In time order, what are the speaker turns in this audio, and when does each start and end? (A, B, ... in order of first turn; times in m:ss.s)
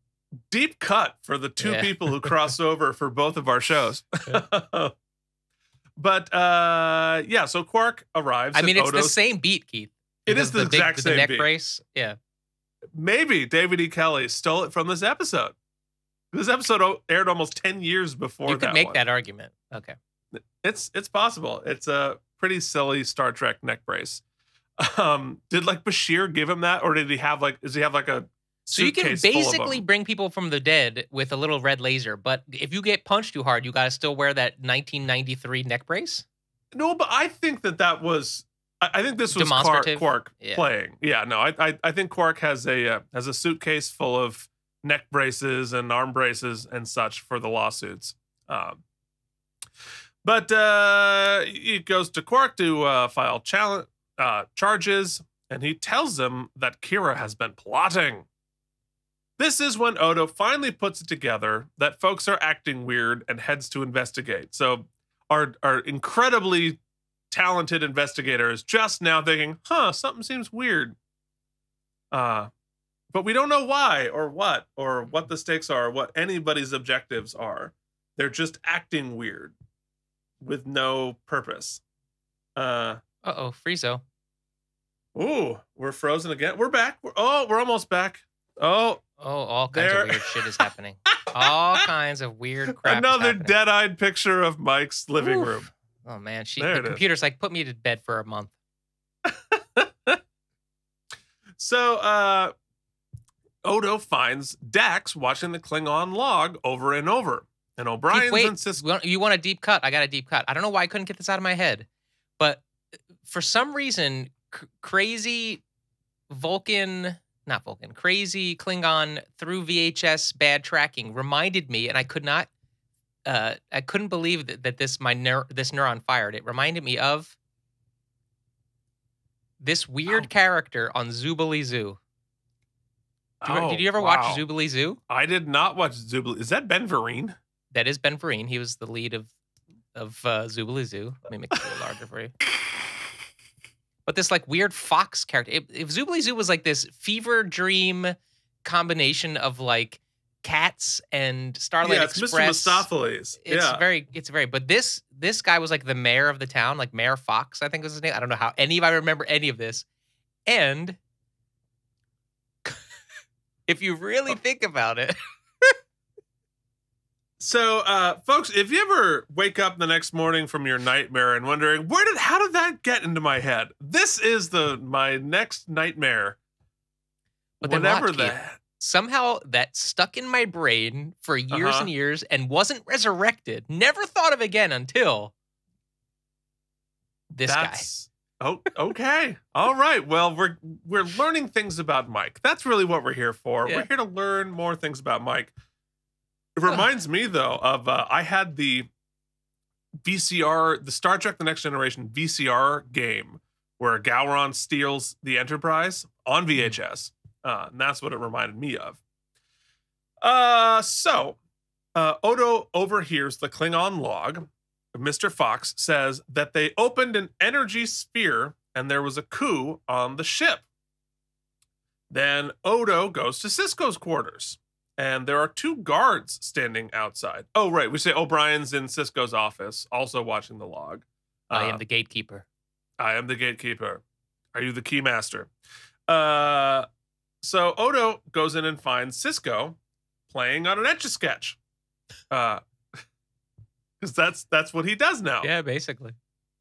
0:00.5-0:05.0 A
0:01.6-0:02.3 B
0:06.0-0:09.2 A
0:08.6-0:12.2 B
0:10.3-0:11.5 A
0:13.0-0:15.6 A
0:16.3-0:19.0 A
0:18.5-0:20.0 B
0:20.3-0:24.2 A
0:24.8-0:29.8 A
0:28.7-0:36.2 B
0:36.7-0:48.8 A
0:39.3-0:40.6 B
0:50.2-0:58.3 A
0:59.4-1:06.8 A
1:07.3-1:11.0 A
1:12.1-1:12.5 A
1:13.1-1:19.5 A
1:20.4-1:21.8 A
1:22.6-1:23.0 A
1:23.2-1:24.0 B
1:25.2-1:29.0 A
1:29.2-1:33.5 B
1:29.7-1:30.7 A
1:31.3-1:31.8 A
1:32.8-1:35.7 A
1:35.2-1:38.5 B
1:36.6-1:37.0 A
1:39.2-1:40.2 A
1:41.6-1:42.5 A
1:43.6-1:48.8 A
1:48.1-1:51.9 B
1:52.4-1:52.6 B
1:53.2-1:55.6 B
1:56.3-2:02.5 B
2:03.3-2:07.4 B
2:09.6-2:12.0 B
2:13.4-2:14.4 A
2:13.4-2:15.0 B
2:15.1-2:17.4 A
2:17.7-2:19.3 B
2:20.0-2:22.3 B
2:24.1-2:32.9 B
2:31.8-2:33.8 A
2:33.4-2:39.8 B
2:40.5-2:41.0 B
2:43.7-2:45.8 B
2:47.4-2:56.4 A
2:57.6-2:58.6 A
2:57.6-3:05.3 B
3:01.5-3:01.9 A
3:07.3-3:07.8 B
3:07.4-3:15.5 A
3:16.6-3:18.9 A
3:20.0-3:29.0 A
3:30.2-3:31.4 A
3:32.0-3:40.6 A
3:42.1-3:51.8 A
3:51.5-3:52.5 B
3:53.0-3:54.0 A
3:54.5-3:55.5 A
3:56.1-3:56.9 A
3:57.4-3:59.8 A
4:00.3-4:01.6 A
4:02.3-4:02.6 A
4:04.0-4:05.5 A
4:05.4-4:06.2 B